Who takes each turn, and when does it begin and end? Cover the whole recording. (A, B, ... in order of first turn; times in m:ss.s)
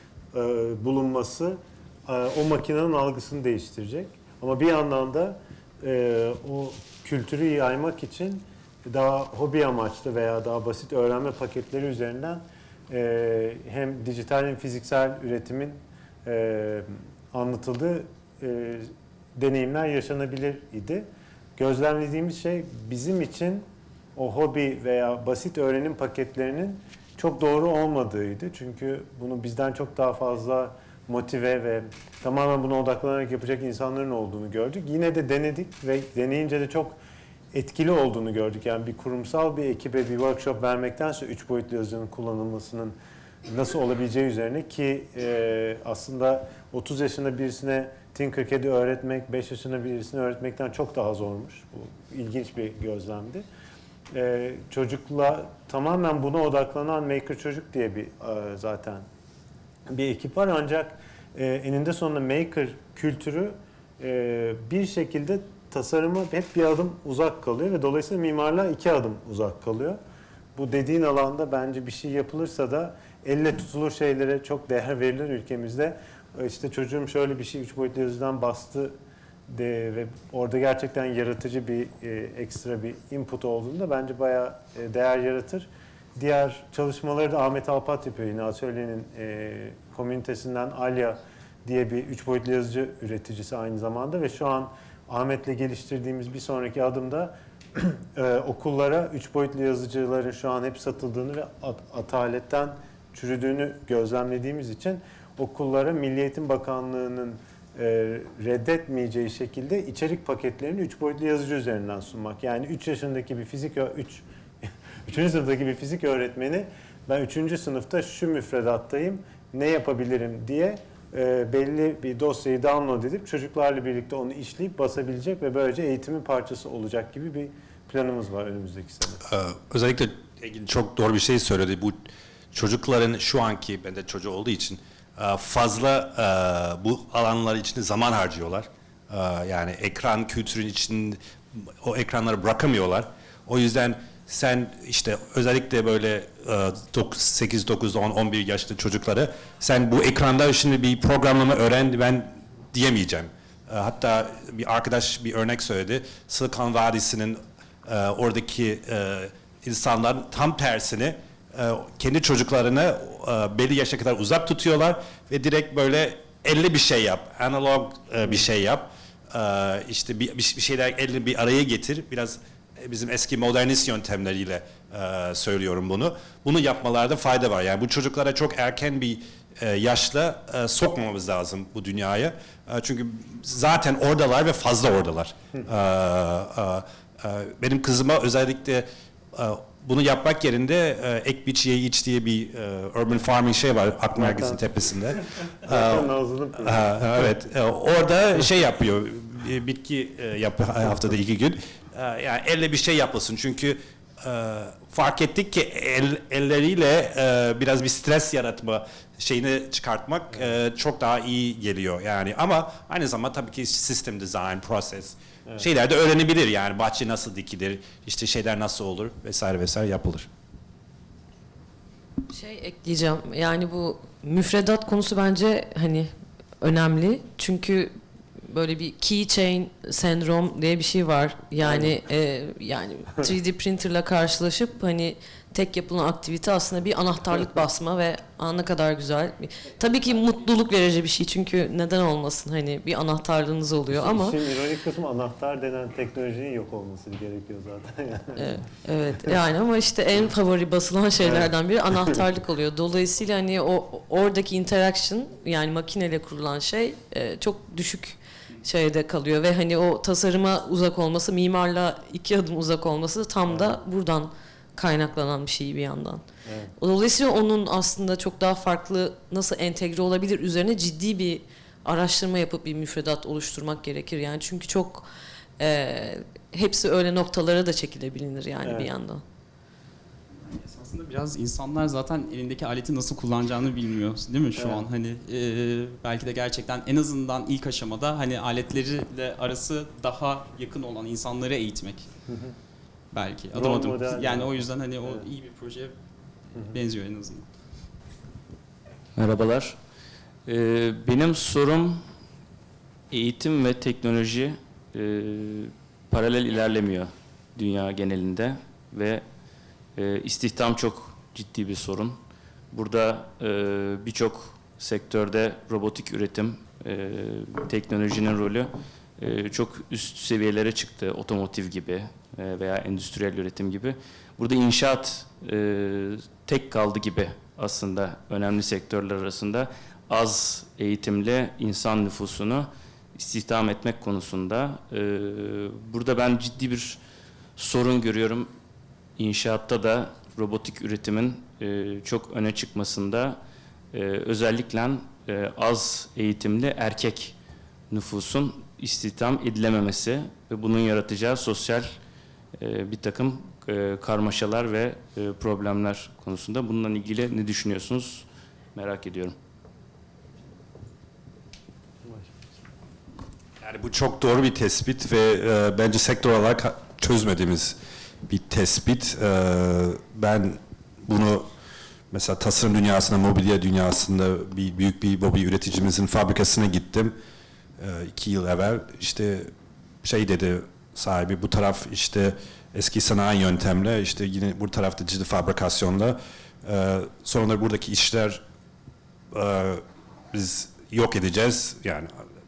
0:00.3-0:37.0 A
0:37.5-0:42.9 A
0:43.4-0:53.4 A
0:54.1-0:59.0 A
0:59.9-1:10.0 A
1:10.5-1:19.0 A
1:19.5-1:54.2 A
1:55.0-2:09.2 A
2:09.2-3:40.3 B
3:14.1-3:14.7 A
3:15.6-3:17.3 A
3:42.3-3:47.9 C
3:48.4-4:04.4 C
3:51.6-3:51.9 A
4:03.9-4:08.6 A
4:08.4-4:26.2 C
4:11.2-4:12.1 A
4:23.5-4:23.7 A
4:26.4-4:26.7 A
4:26.8-4:35.1 C
4:35.6-4:39.2 C
4:38.6-4:38.9 A
4:40.4-4:52.0 D
4:44.6-4:44.8 A
4:52.3-4:52.5 A
4:53.1-4:55.9 D
4:53.5-4:55.2 A
4:56.6-4:57.4 D
4:59.2-4:59.8 E
5:00.4-5:02.0 E
5:03.1-5:09.2 E
5:09.9-5:37.0 E
5:37.6-5:38.5 E
5:39.2-5:43.4 E
5:43.9-5:47.4 E
5:47.9-5:52.0 E
5:52.6-5:59.4 E
6:02.0-6:02.3 A
6:03.6-6:07.8 B
6:08.3-6:11.5 B
6:12.1-6:17.1 B
6:17.8-6:19.5 B
6:20.0-6:28.4 B
6:29.3-6:32.1 B